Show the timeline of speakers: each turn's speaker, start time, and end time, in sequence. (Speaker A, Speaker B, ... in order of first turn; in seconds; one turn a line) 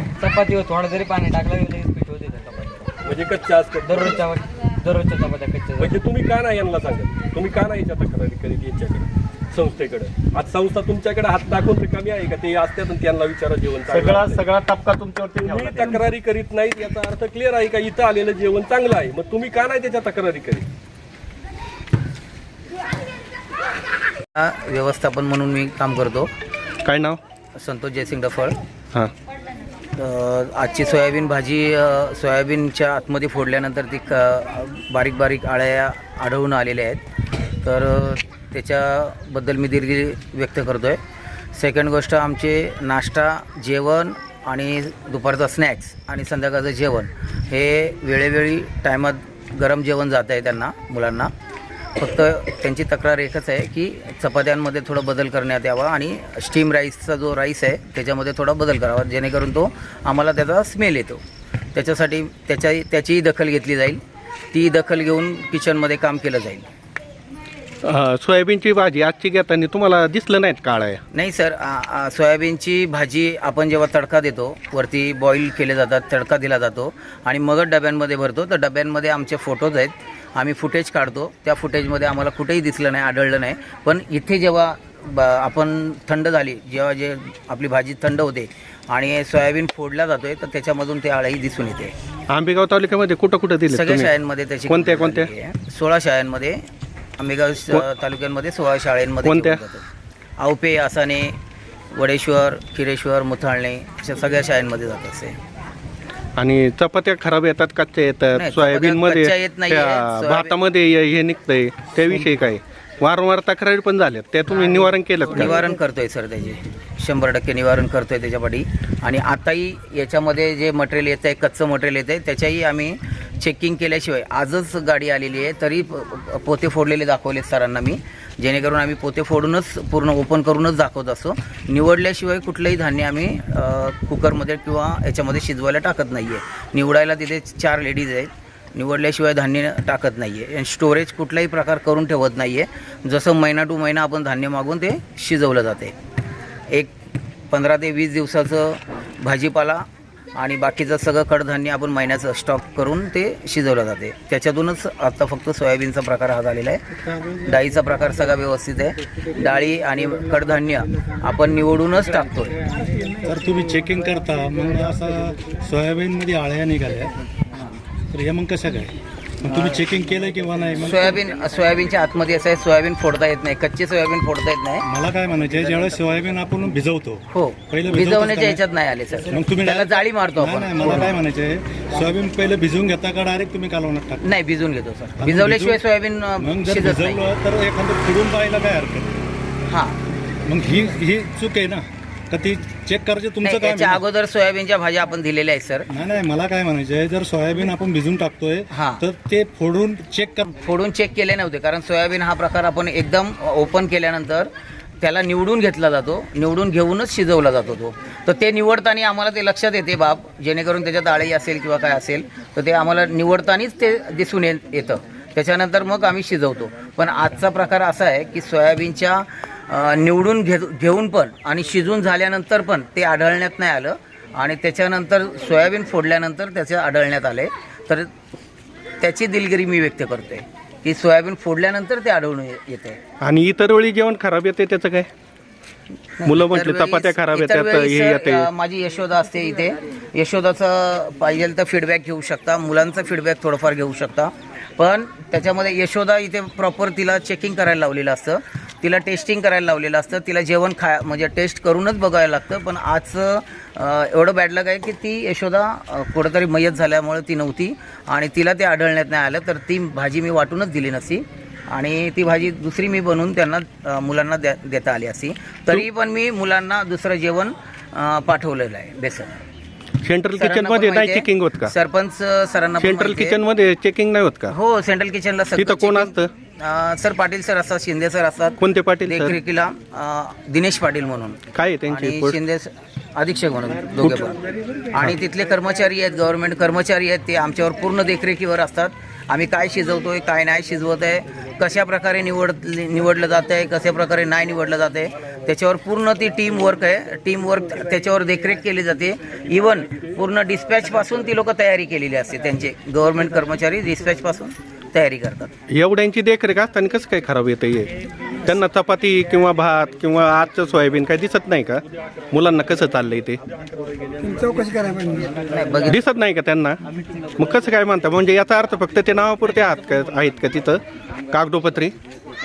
Speaker A: 0.2-2.9
Speaker B: 3.0-4.2
Speaker A: 3.9-5.9
Speaker B: 5.8-14.4
Speaker C: 13.9-16.0
Speaker B: 15.4-20.7
Speaker D: 24.4-26.3
Speaker E: 26.9-27.2
Speaker D: 27.6-28.6
Speaker D: 30.0-37.0
Speaker D: 37.6-41.0
Speaker D: 41.5-51.3
Speaker D: 52.0-61.2
Speaker D: 61.8-64.0
Speaker D: 64.5-66.7
Speaker E: 67.8-71.0
Speaker D: 71.1-92.0
Speaker E: 92.3-94.1
Speaker D: 93.7-96.6
Speaker E: 94.7-95.3
Speaker D: 97.2-99.9
Speaker E: 99.2-99.6
Speaker D: 100.4-101.3
Speaker D: 101.9-105.4
Speaker E: 106.4-115.5
Speaker D: 108.3-110.6
Speaker A: 114.5-115.6
Speaker D: 115.3-145.9
Speaker D: 147.5-149.8
Speaker D: 150.4-156.8
Speaker D: 157.4-162.6
Speaker F: 163.2-167.1
Speaker F: 168.1-171.2
Speaker D: 169.5-169.8
Speaker D: 170.8-174.8
Speaker F: 174.8-178.6
Speaker D: 177.3-181.2
Speaker F: 179.3-184.2
Speaker D: 184.2-187.3
Speaker F: 185.2-185.8
Speaker F: 186.4-189.3
Speaker D: 189.7-190.0
Speaker F: 190.5-194.0
Speaker D: 193.4-195.9
Speaker F: 195.9-200.5
Speaker D: 198.7-199.0
Speaker D: 200.5-204.5
Speaker D: 205.0-228.1
Speaker D: 229.0-233.0
Speaker E: 233.2-235.1
Speaker D: 236.2-269.4
Speaker E: 236.2-238.5
Speaker E: 270.1-271.7
Speaker D: 270.4-273.4
Speaker E: 272.8-274.5
Speaker D: 274.5-284.4
Speaker E: 275.6-276.3
Speaker E: 278.6-279.4
Speaker E: 281.5-282.4
Speaker D: 284.9-305.5
Speaker B: 295.1-295.4
Speaker B: 297.4-298.2
Speaker B: 299.5-300.2
Speaker B: 300.9-301.3
Speaker E: 305.7-307.9
Speaker E: 308.5-313.4
Speaker B: 313.8-315.3
Speaker D: 315.5-316.0
Speaker E: 315.9-316.8
Speaker E: 317.4-321.9